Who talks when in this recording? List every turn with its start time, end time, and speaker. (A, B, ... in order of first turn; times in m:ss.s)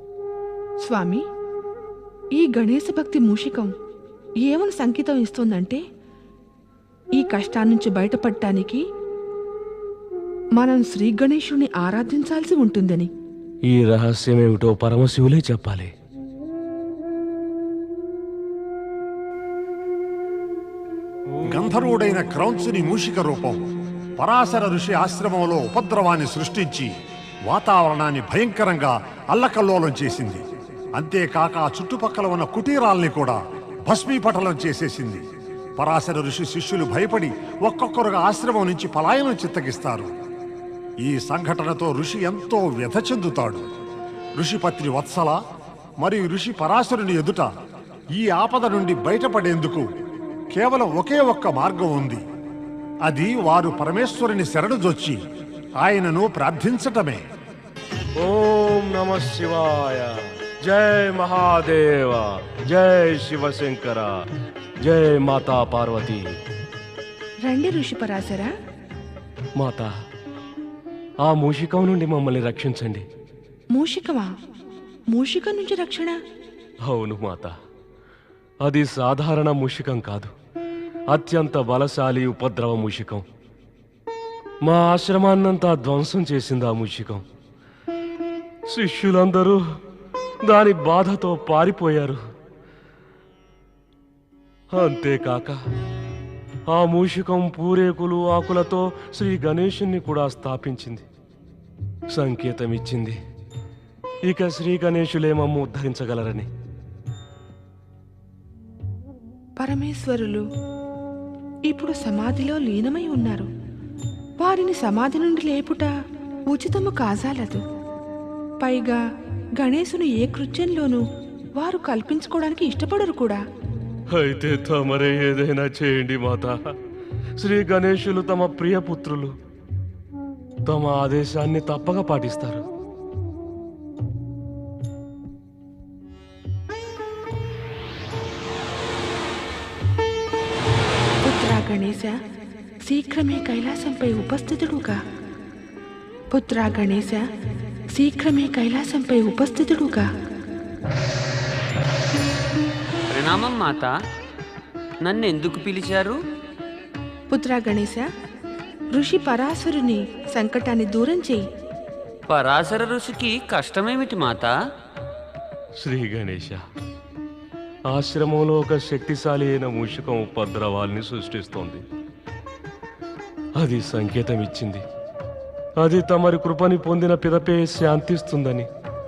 0:00.8-0:01.2 A
0:02.4-0:03.7 A
0:04.4-0:05.8 A
0:07.2-0:08.8 A
0:10.6-0:13.1 A
0:13.7-0:15.9 B
0:21.5-0:23.6 C
0:24.2-0:26.9 C
0:27.4-0:30.4 C
0:31.0-0:35.2 C
0:35.8-0:40.1 C
0:41.0-0:43.6 C
0:44.4-0:45.4 C
0:46.0-0:47.5 C
0:48.1-0:49.9 C
0:50.5-0:52.2 C
0:53.0-0:55.2 C
0:55.8-0:57.2 C
0:58.2-1:04.2 B
1:04.8-1:06.4 B
1:07.4-1:08.5 A
1:09.6-1:09.9 B
1:11.2-1:13.0 B
1:13.7-1:14.3 A
1:15.1-1:16.2 A
1:16.9-1:17.5 B
1:18.6-1:20.3 B
1:21.1-1:23.2 B
1:24.6-1:27.2 B
1:28.7-1:29.6 B
1:30.4-1:32.2 B
1:34.7-1:35.6 B
1:36.7-1:41.0 B
1:42.1-1:43.2 B
1:44.3-1:46.5 B
1:49.6-1:50.4 A
1:51.7-1:53.5 A
1:54.4-1:55.9 A
1:56.5-1:57.6 A
1:58.6-1:59.0 A
1:59.6-2:01.0 A
2:01.6-2:03.4 A
2:04.1-2:06.6 B
2:07.4-2:09.3 B
2:10.7-2:12.6 B
2:21.2-2:22.2 A
2:22.8-2:25.0 A
2:26.3-2:27.3 A
2:27.9-2:30.1 A
2:33.1-2:33.9 D
2:35.0-2:36.2 D
2:37.3-2:38.1 A
2:38.9-2:41.4 A
2:42.3-2:44.5 D
2:45.8-2:46.6 B
2:47.9-2:51.8 B
2:53.6-2:54.8 B
2:55.8-2:58.7 B